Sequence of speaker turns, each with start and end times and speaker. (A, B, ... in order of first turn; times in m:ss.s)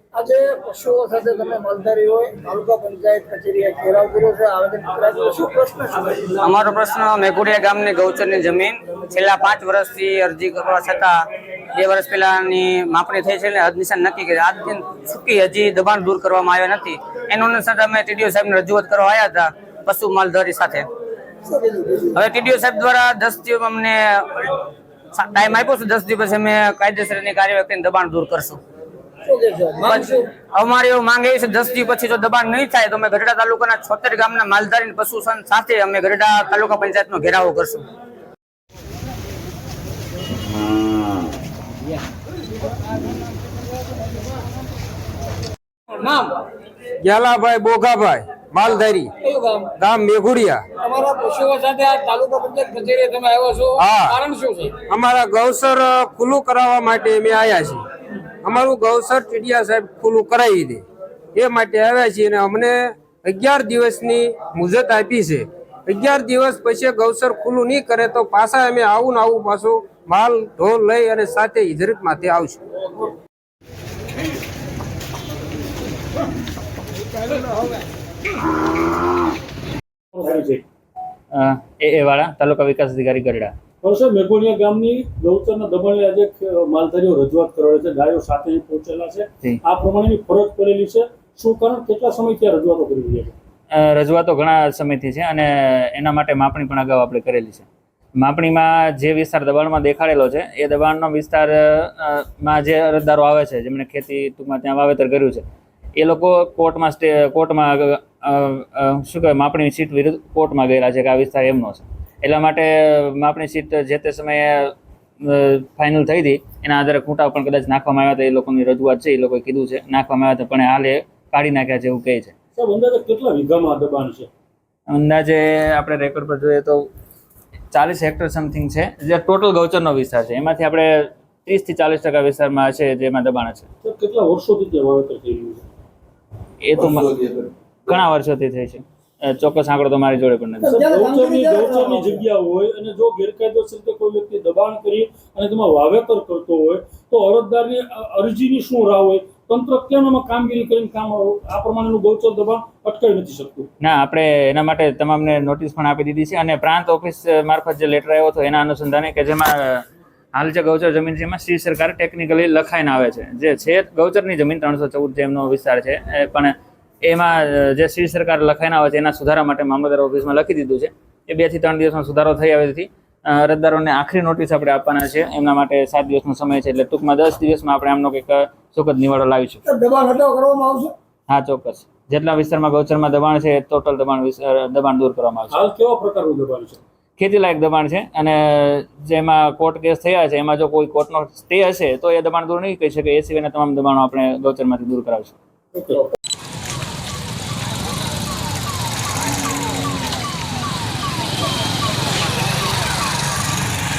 0:00.2-0:06.3 A
0:06.4-0:11.2 B
0:11.7-0:20.9 B
0:21.4-0:22.2 A
0:22.1-0:24.5 B
0:25.2-0:28.6 B
0:29.2-0:30.3 A
0:29.8-0:37.8 B
0:45.9-0:46.4 A
0:47.0-0:49.1 C
0:49.2-0:49.7 A
0:49.8-0:50.6 C
0:50.8-0:54.8 A
0:53.8-0:54.1 C
0:54.8-0:57.8 C
0:58.4-1:12.6 C
1:20.1-1:20.6 D
1:21.3-1:23.5 E
1:23.8-1:33.4 D
1:33.7-1:37.7 E
1:38.2-1:45.5 E
1:46.0-2:02.4 E
2:02.6-2:04.3 D
2:04.9-2:06.9 E
2:07.7-2:13.7 E
2:13.8-2:15.6 D
2:16.6-2:20.7 E
2:20.6-2:33.7 D
2:20.6-2:22.2 A
2:33.8-2:59.6 E
2:59.6-3:00.9 A
3:01.3-3:05.6 E
3:05.5-3:06.8 D
3:07.2-3:15.4 E
3:15.7-3:16.1 D